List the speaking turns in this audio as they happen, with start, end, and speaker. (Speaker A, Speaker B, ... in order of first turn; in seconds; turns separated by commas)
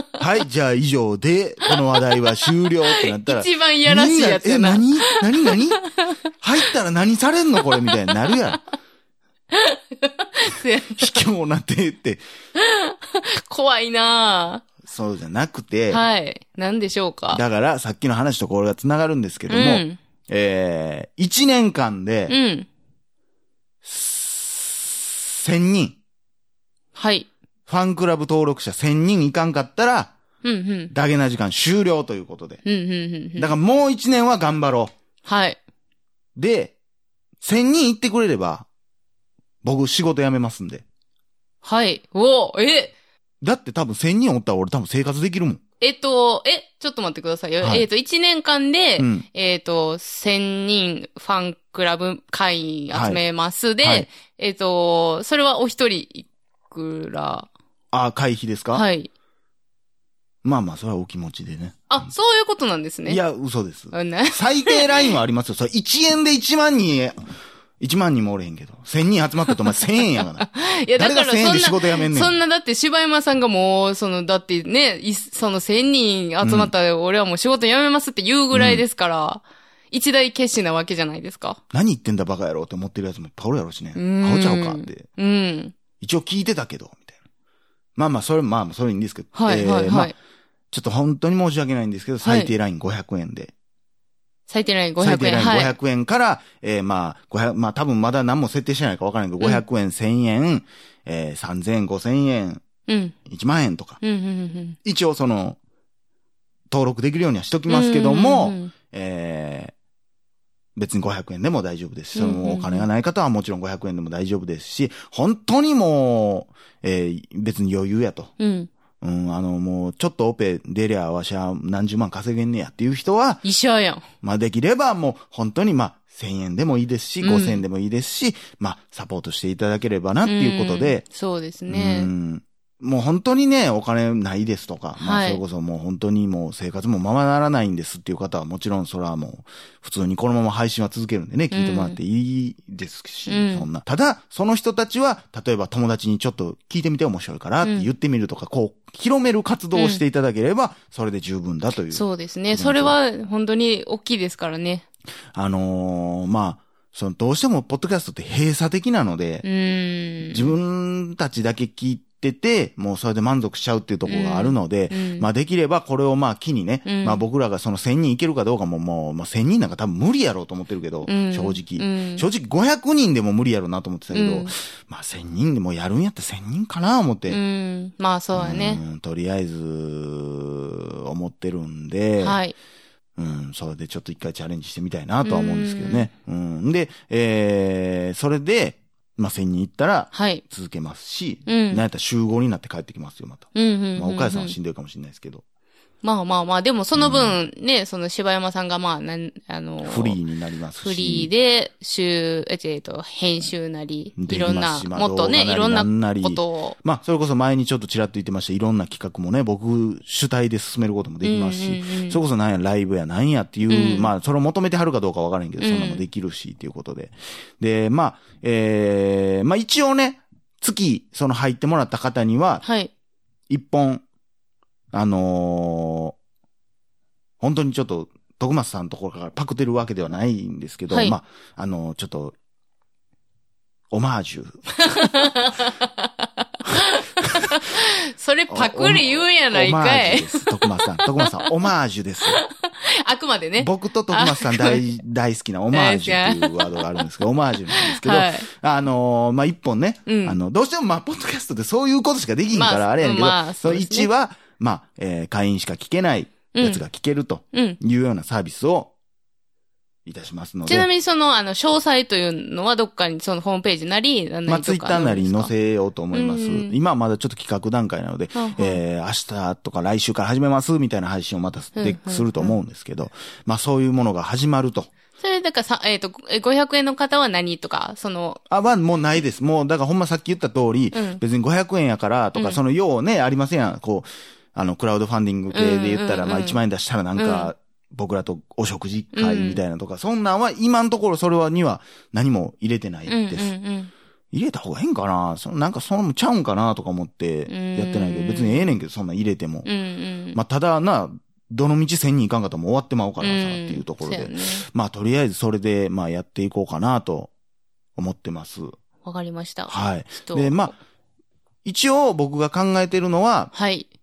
Speaker A: 0.2-5.8, Speaker B: 2.9-6.1, Speaker A: 6.4-8.6, Speaker B: 7.7-8.3, Speaker B: 9.5-11.2, Speaker A: 10.9-12.2, Speaker B: 12.6-14.6, Speaker A: 14.8-16.1, Speaker B: 15.9-17.4, Speaker A: 17.3-22.4, Speaker B: 19.5-20.0, Speaker B: 22.3-22.7, Speaker A: 23.8-26.0, Speaker B: 26.9-27.3, Speaker A: 27.7-30.1, Speaker B: 30.4-30.9, Speaker A: 30.9-32.6, Speaker B: 32.6-33.5, Speaker A: 33.4-34.9, Speaker B: 35.2-35.6, Speaker A: 36.4-36.8, Speaker A: 37.4-38.7, Speaker A: 39.6-40.8, Speaker B: 41.6-42.9, Speaker A: 43.4-45.6, Speaker B: 45.8-57.5, Speaker A: 47.6-47.9, Speaker A: 49.0-49.2, Speaker A: 52.9-53.2, Speaker A: 53.8-54.1, Speaker A: 57.9-58.8, Speaker B: 58.7-59.1, Speaker A: 60.4-62.1, Speaker B: 61.9-63.2, Speaker A: 63.0-67.2, Speaker B: 63.9-65.1, Speaker A: 67.8-72.3, Speaker B: 70.2-81.6, Speaker A: 76.4-76.7, Speaker A: 78.5-78.8, Speaker A: 81.7-85.1, Speaker B: 84.0-85.7, Speaker A: 86.0-87.1, Speaker A: 88.0-90.1, Speaker B: 89.3-90.1, Speaker A: 90.7-93.5, Speaker B: 92.2-92.5, Speaker B: 94.5-95.8, Speaker A: 95.0-102.6, Speaker B: 102.9-103.1, Speaker A: 103.3-104.0, Speaker B: 104.0-104.8, Speaker A: 104.8-105.6, Speaker A: 106.7-109.7, Speaker B: 107.7-108.7, Speaker A: 110.8-118.3, Speaker B: 112.1-112.9, Speaker B: 118.4-118.7, Speaker A: 119.0-123.4, Speaker B: 123.4-124.0, Speaker A: 124.2-131.0, Speaker B: 127.2-127.6, Speaker B: 130.2-132.1, Speaker A: 131.7-152.9, Speaker B: 135.0-135.4, Speaker B: 141.5-142.0, Speaker B: 143.3-143.7, Speaker B: 147.6-147.9, Speaker B: 149.7-150.0, Speaker B: 151.9-154.8, Speaker A: 155.3-159.4, Speaker B: 159.4-160.5, Speaker A: 160.3-177.4, Speaker B: 164.1-165.2, Speaker B: 166.8-167.2, Speaker B: 171.1-172.2, Speaker B: 174.1-174.5, Speaker B: 177.3-178.8, Speaker A: 178.3-182.4, Speaker B: 182.2-182.5, Speaker A: 183.2-195.4, Speaker B: 185.2-186.1, Speaker B: 190.1-190.4, Speaker B: 191.5-191.8, Speaker B: 193.5-194.5, Speaker B: 196.0-200.2, Speaker A: 196.9-197.4, Speaker A: 199.8-201.3, Speaker B: 200.8-206.8, Speaker A: 204.2-222.6, Speaker B: 211.2-212.2, Speaker B: 213.7-214.1, Speaker B: 215.6-216.0, Speaker B: 222.6-222.9, Speaker A: 223.5-224.0, Speaker A: 224.9-226.2, Speaker A: 227.4-232.3, Speaker B: 230.9-231.2, Speaker A: 233.9-235.2, Speaker B: 234.8-241.5, Speaker A: 238.5-242.4, Speaker B: 242.3-244.8, Speaker A: 243.6-258.9, Speaker B: 245.7-247.1, Speaker B: 247.7-248.5, Speaker B: 250.1-250.4, Speaker B: 252.5-254.1, Speaker B: 256.5-256.8, Speaker B: 257.5-257.8, Speaker A: 260.1-260.9, Speaker B: 260.6-265.5, Speaker A: 264.4-274.9, Speaker B: 266.1-266.7, Speaker B: 268.3-268.8, Speaker B: 271.8-272.6, Speaker B: 275.2-278.4, Speaker A: 278.5-293.5, Speaker B: 280.9-281.2, Speaker B: 285.5-286.6, Speaker B: 287.2-287.5, Speaker B: 289.1-289.6, Speaker B: 293.1-293.9, Speaker A: 294.3-299.7, Speaker B: 297.5-298.7, Speaker B: 299.6-300.4, Speaker A: 300.3-307.3, Speaker B: 303.2-304.6, Speaker A: 307.9-308.7, Speaker B: 309.0-310.7, Speaker A: 309.7-310.7, Speaker A: 311.6-313.5, Speaker B: 313.5-313.9